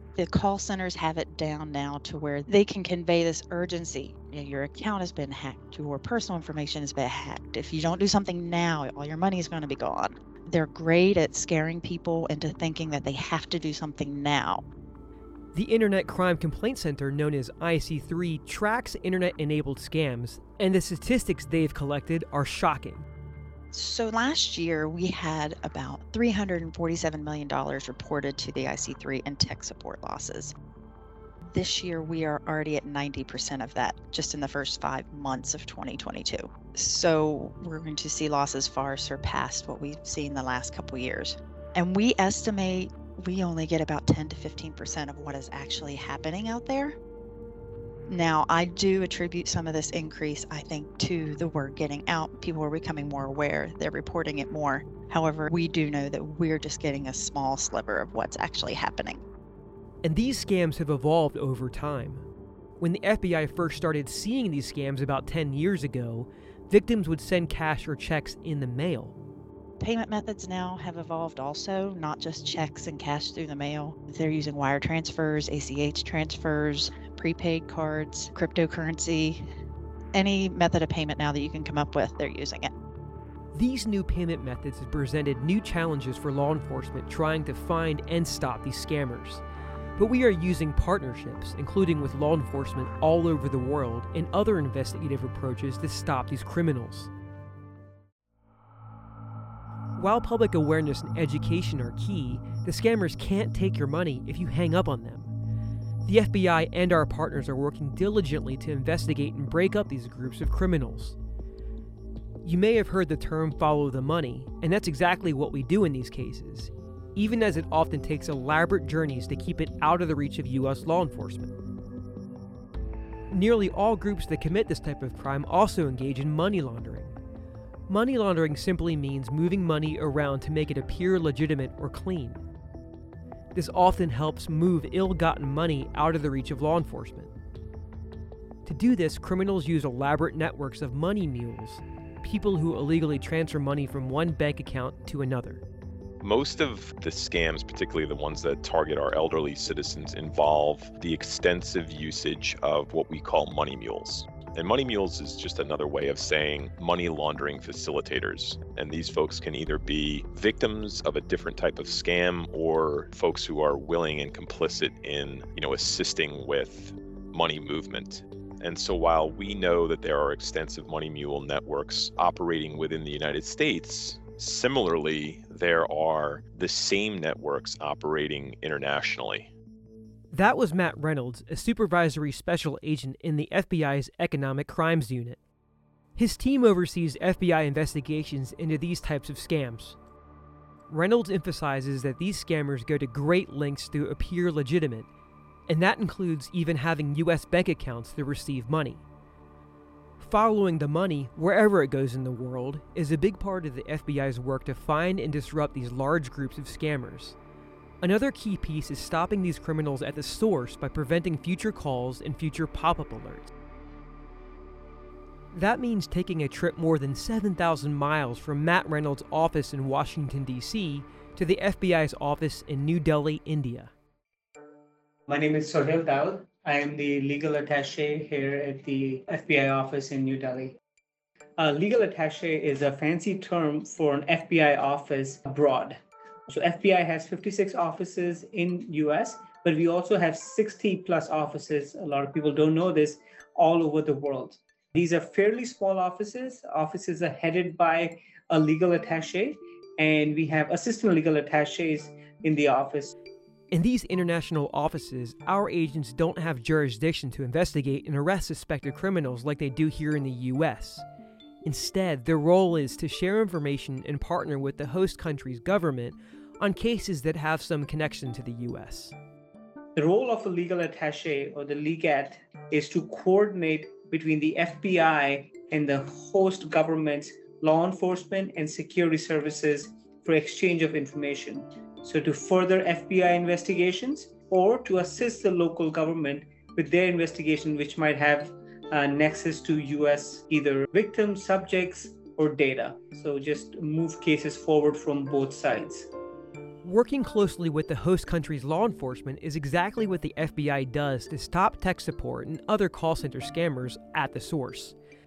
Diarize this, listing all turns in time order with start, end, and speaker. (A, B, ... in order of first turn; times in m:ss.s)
0:00.2-0:14.6 A
0:15.5-0:23.0 B
0:23.7-0:30.5 A
0:31.5-0:47.0 A
0:48.1-0:59.2 A
1:00.0-1:02.2 B
1:02.8-1:09.1 B
1:09.8-1:19.4 A
1:20.1-1:22.7 A
1:23.5-1:29.4 B
1:30.0-1:37.1 B
1:40.0-1:45.3 B
1:46.0-1:51.2 B
1:52.4-2:01.5 B
2:03.3-2:07.2 B
2:07.9-2:12.4 B
2:13.5-2:17.3 B
2:18.6-2:25.6 B
2:26.2-2:59.5 C
3:00.3-3:05.4 B
3:06.2-3:10.0 B
3:10.9-3:15.1 B
3:15.7-3:19.0 B
3:20.2-3:27.4 B
3:28.0-3:33.5 B
3:35.5-3:43.9 B
3:45.3-3:50.8 D
3:51.6-4:13.1 D
4:13.7-4:21.0 B
4:21.6-4:29.1 B
4:30.0-4:56.1 D
4:56.8-5:04.9 B